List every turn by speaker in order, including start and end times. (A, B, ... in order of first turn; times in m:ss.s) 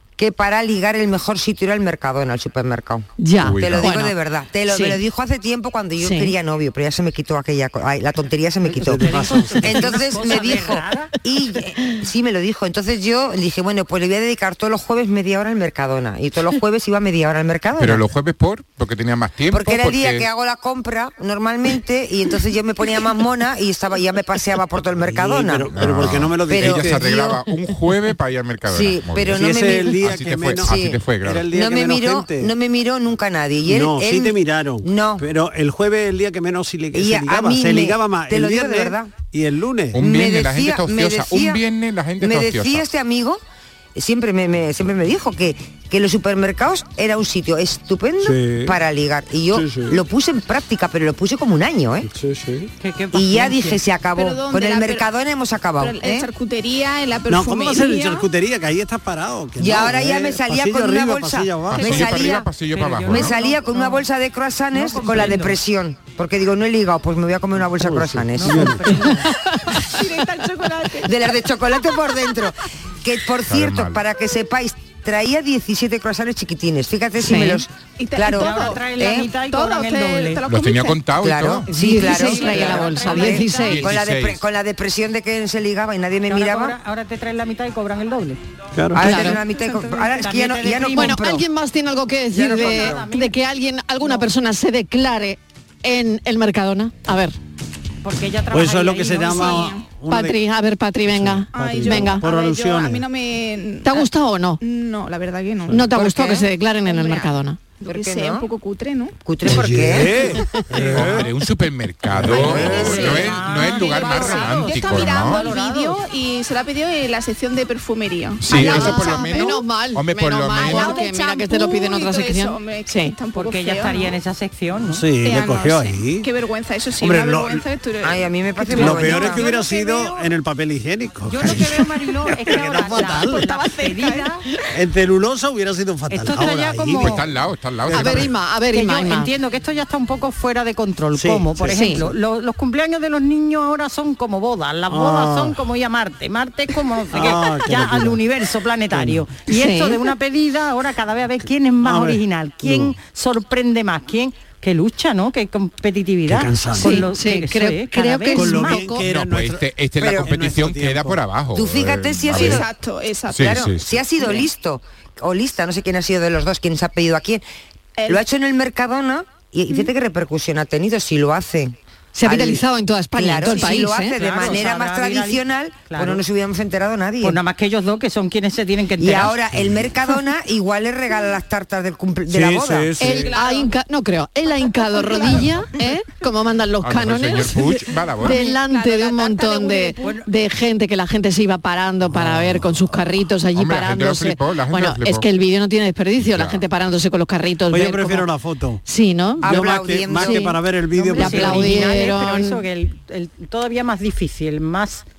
0:00.2-0:18.0 A
0:03.2-0:04.2 B
0:03.4-0:04.0 C
0:04.7-0:05.0 B
0:06.0-0:06.3 B
0:08.6-0:10.2 D
0:09.0-0:11.1 E
0:17.8-0:20.3 C
0:19.5-0:27.4 A
0:25.0-0:27.1 D
0:25.7-0:31.5 C
0:28.7-0:30.0 A
0:29.3-0:32.5 D
0:30.6-0:35.3 A
0:33.7-0:40.0 D
0:36.9-0:39.1 A
0:39.9-0:42.9 C
0:40.0-0:41.6 A
0:42.2-0:43.4 A
0:44.0-0:52.1 A
0:48.2-0:48.8 D
0:49.5-0:50.0 D
0:52.1-0:52.7 D
0:52.8-0:53.8 E
0:53.1-0:56.3 A
0:54.2-0:55.1 F
0:55.8-0:58.3 F
0:57.3-1:02.1 D
0:59.6-1:02.5 A
1:01.7-1:03.3 C
1:02.7-1:04.0 E
1:03.1-1:08.8 A
1:04.7-1:05.6 E
1:07.8-1:09.1 D
1:08.4-1:09.3 E
1:09.7-1:11.4 F
1:11.0-1:19.3 A
1:13.4-1:14.0 C
1:17.2-1:17.6 B
1:18.0-1:21.1 F
1:18.3-1:20.4 E
1:20.4-1:21.7 C
1:21.2-1:26.8 A
1:21.7-1:23.9 B
1:22.0-1:23.9 E
1:23.6-1:24.4 C
1:26.3-1:28.4 E
1:28.8-1:29.1 D
1:28.9-1:31.4 A
1:29.0-1:29.4 B
1:29.2-1:29.9 F
1:29.9-1:31.2 E
1:30.9-1:37.4 B
1:32.3-1:33.0 A
1:32.4-1:33.4 E
1:38.0-1:39.7 E
1:38.5-1:40.4 D
1:39.3-1:39.8 F
1:40.1-1:42.2 B
1:41.1-1:43.0 D
1:41.5-1:44.1 F
1:43.8-1:44.6 B
1:44.6-1:49.2 F
1:45.7-1:47.6 B
1:46.0-1:46.4 A
1:47.8-1:48.5 A
1:49.2-1:50.3 A
1:49.4-1:51.3 D
1:50.9-1:55.5 C
1:52.1-1:53.1 D
1:52.2-1:56.0 E
1:52.3-1:59.6 F
1:58.4-2:01.0 C
1:58.5-2:03.2 B
2:00.6-2:04.2 F
2:03.3-2:05.0 E
2:04.9-2:06.3 D
2:05.2-2:10.2 F
2:07.0-2:07.6 D
2:08.0-2:09.4 A
2:08.8-2:13.5 D
2:11.3-2:14.4 E
2:12.6-2:14.4 F
2:14.7-2:17.3 D
2:16.1-2:17.2 E
2:17.0-2:18.3 C
2:17.8-2:18.3 D
2:17.9-2:19.3 B
2:18.7-2:38.9 E
2:21.1-2:22.2 D
2:21.7-2:22.0 B
2:24.9-2:25.6 D
2:27.1-2:28.2 D
2:28.9-2:29.2 D
2:29.5-2:30.0 B
2:31.8-2:33.0 D
2:36.3-2:37.1 D
2:36.8-2:39.0 B
2:38.3-2:41.2 D
2:39.0-2:42.7 C
2:40.0-2:40.3 A
2:41.5-2:42.7 A
2:42.3-2:43.6 F
2:43.3-2:44.1 C
2:43.4-2:47.4 A
2:48.0-2:48.2 F
2:48.1-2:52.6 A
2:52.1-2:54.2 B
2:53.2-2:57.4 A
2:53.5-2:56.2 E
2:57.2-2:59.4 E
2:59.0-3:03.1 A
3:02.3-3:03.3 D
3:03.0-3:18.3 B
3:03.0-3:03.7 F
3:04.5-3:05.6 F
3:06.8-3:08.4 C
3:08.2-3:10.2 F
3:12.1-3:12.7 D
3:13.6-3:15.3 C
3:16.2-3:16.6 C
3:17.7-3:18.8 D
3:18.9-3:20.5 B
3:19.4-3:22.0 D
3:19.4-3:20.5 A
3:21.0-3:25.0 E
3:21.2-3:22.6 B